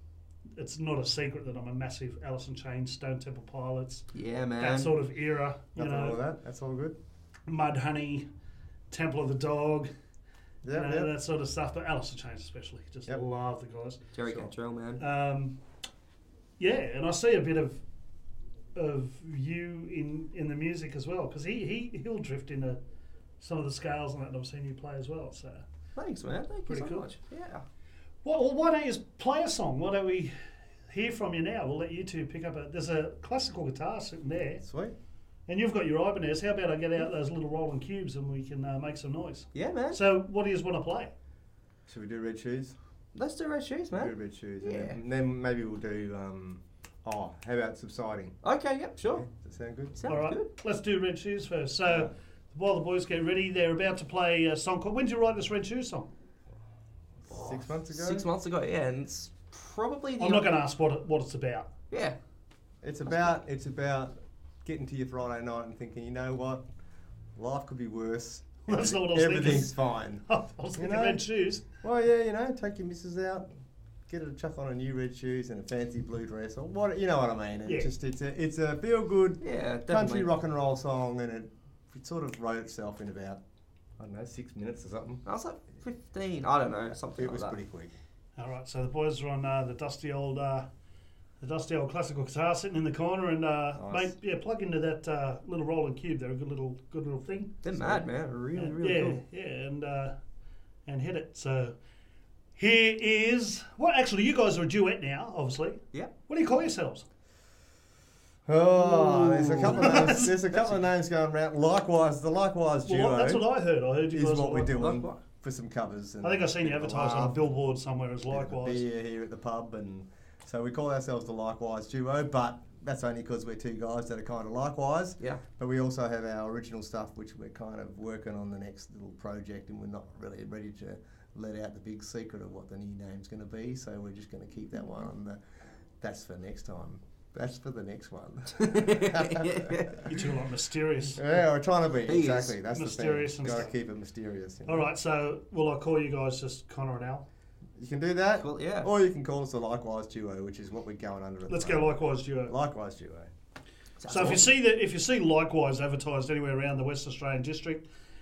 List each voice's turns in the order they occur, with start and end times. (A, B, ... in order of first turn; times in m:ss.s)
0:00.6-0:04.1 A
0:04.1-0:05.0 B
0:04.6-0:06.2 A
0:05.8-0:07.0 C
0:07.5-0:08.3 A
0:08.9-0:09.9 A
0:10.6-0:11.1 C
0:10.7-0:14.0 A
0:14.1-0:15.0 B
0:14.2-0:14.5 C
0:15.0-0:15.6 A
0:16.6-0:17.8 A
0:18.8-0:22.8 A
0:23.4-0:25.6 A
0:26.0-0:27.6 B
0:26.7-0:27.1 A
0:28.2-0:30.3 A
0:30.9-0:34.6 A
0:34.6-0:35.0 C
0:35.5-0:41.1 A
0:39.5-0:40.0 B
0:41.9-0:42.8 C
0:43.1-0:45.0 B
0:43.9-0:48.4 C
0:48.4-0:49.2 B
0:49.1-0:50.0 C
0:50.0-0:50.5 B
0:50.1-0:56.1 A
0:57.2-0:58.3 C
0:57.3-1:00.5 B
1:00.2-1:01.7 A
1:01.9-1:02.2 B
1:02.8-1:04.1 C
1:04.6-1:06.6 C
1:07.4-1:10.2 C
1:08.7-1:09.8 A
1:10.3-1:11.6 A
1:10.8-1:11.2 C
1:11.8-1:13.5 C
1:14.1-1:23.4 C
1:17.6-1:17.9 A
1:19.4-1:20.3 B
1:24.0-1:25.2 C
1:25.2-1:27.6 B
1:27.1-1:27.9 C
1:28.4-1:30.7 A
1:31.4-1:37.6 A
1:33.8-1:34.1 C
1:37.6-1:39.2 B
1:38.5-1:40.1 A
1:40.9-1:41.8 A
1:42.6-1:47.1 A
1:48.4-1:53.4 C
1:48.8-1:50.8 B
1:49.6-1:50.3 A
1:52.9-1:54.9 A
1:54.1-1:57.5 C
1:54.7-1:55.2 B
1:56.2-1:58.8 A
1:58.3-2:15.4 C
2:16.0-2:20.1 C
2:18.6-2:20.0 B
2:20.0-2:21.3 A
2:21.1-2:24.9 C
2:22.1-2:22.6 B
2:22.7-2:23.7 A
2:24.6-2:27.2 A
2:27.8-2:33.3 C
2:28.4-2:28.9 B
2:31.5-2:32.6 A
2:34.0-2:34.5 B
2:34.1-2:37.9 A